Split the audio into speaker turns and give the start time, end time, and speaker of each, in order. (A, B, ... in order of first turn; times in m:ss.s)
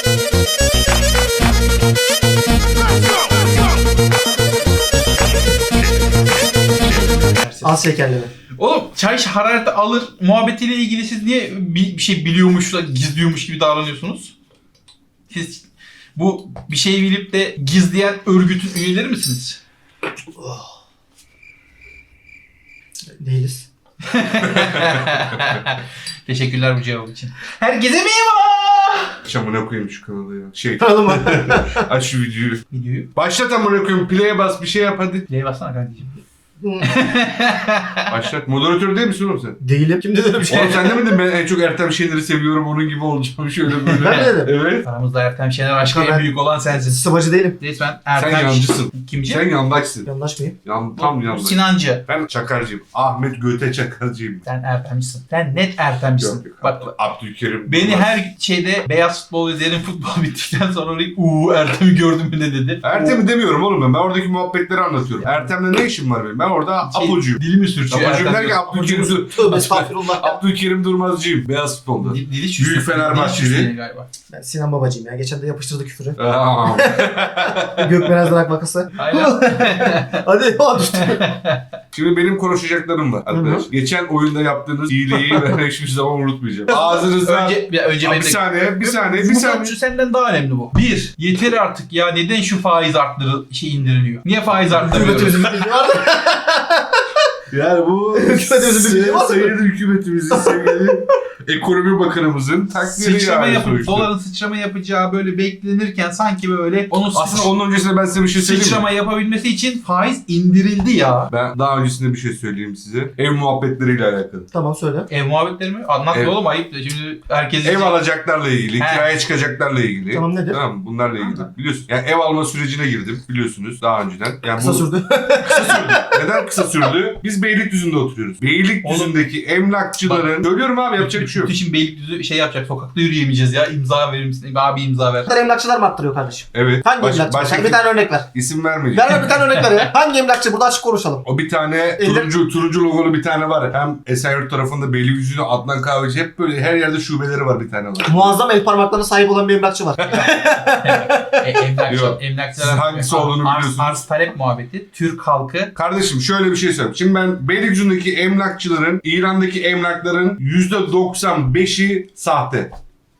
0:07.2-0:07.8 A
0:07.6-0:08.3 B
0:08.6-0:14.3 A
0:15.3-0:15.6 A
0:16.1-0:19.6 A
0:20.4-0:20.7 B
0:23.1-0:23.7 B
0:24.1-0:29.2 A
0:24.4-0:25.0 C
0:29.2-0:32.6 C
0:30.8-0:31.8 B
0:32.7-0:33.1 A
0:33.1-0:35.2 C
0:35.2-0:36.2 A
0:36.6-0:36.9 B
0:36.8-0:38.0 A
0:38.1-0:39.6 C
0:39.6-0:41.1 B
0:40.5-0:44.9 C
0:43.9-0:47.0 A
0:44.0-0:44.5 B
0:45.8-0:46.3 B
0:46.9-0:47.6 B
0:47.6-0:49.4 A
0:48.2-0:50.1 C
0:50.0-0:50.6 B
0:50.6-0:54.4 C
0:51.0-0:52.0 A
0:54.4-0:56.9 A
0:56.2-0:58.2 C
0:57.6-1:03.2 A
1:02.8-1:13.7 C
1:06.8-1:09.1 A
1:09.0-1:10.4 B
1:12.0-1:14.1 A
1:14.3-1:21.2 B
1:16.2-1:18.3 C
1:19.0-1:20.2 A
1:21.0-1:21.6 A
1:21.9-1:29.8 C
1:23.3-1:23.7 B
1:26.7-1:35.7 A
1:34.8-1:37.0 B
1:37.5-1:44.1 C
1:38.1-1:39.6 B
1:40.3-1:40.9 B
1:42.9-1:47.5 A
1:47.1-1:48.8 C
1:48.3-1:51.3 A
1:51.3-1:54.5 C
1:54.5-1:55.1 B
1:55.1-1:58.0 A
1:57.6-2:04.9 C
1:58.8-1:59.1 A
2:00.1-2:00.6 B
2:01.2-2:01.5 A
2:04.6-2:06.2 B
2:05.5-2:05.9 A
2:05.6-2:11.5 C
2:08.8-2:09.2 A
2:10.0-2:10.4 A
2:11.0-2:15.3 A
2:15.3-2:18.3 B
2:16.5-2:19.2 C
2:18.9-2:21.3 B
2:21.2-2:28.3 C
2:22.0-2:22.3 B
2:28.0-2:30.9 B
2:30.0-2:30.5 C
2:30.8-2:35.7 A
2:31.9-2:34.0 C
2:35.7-2:42.7 C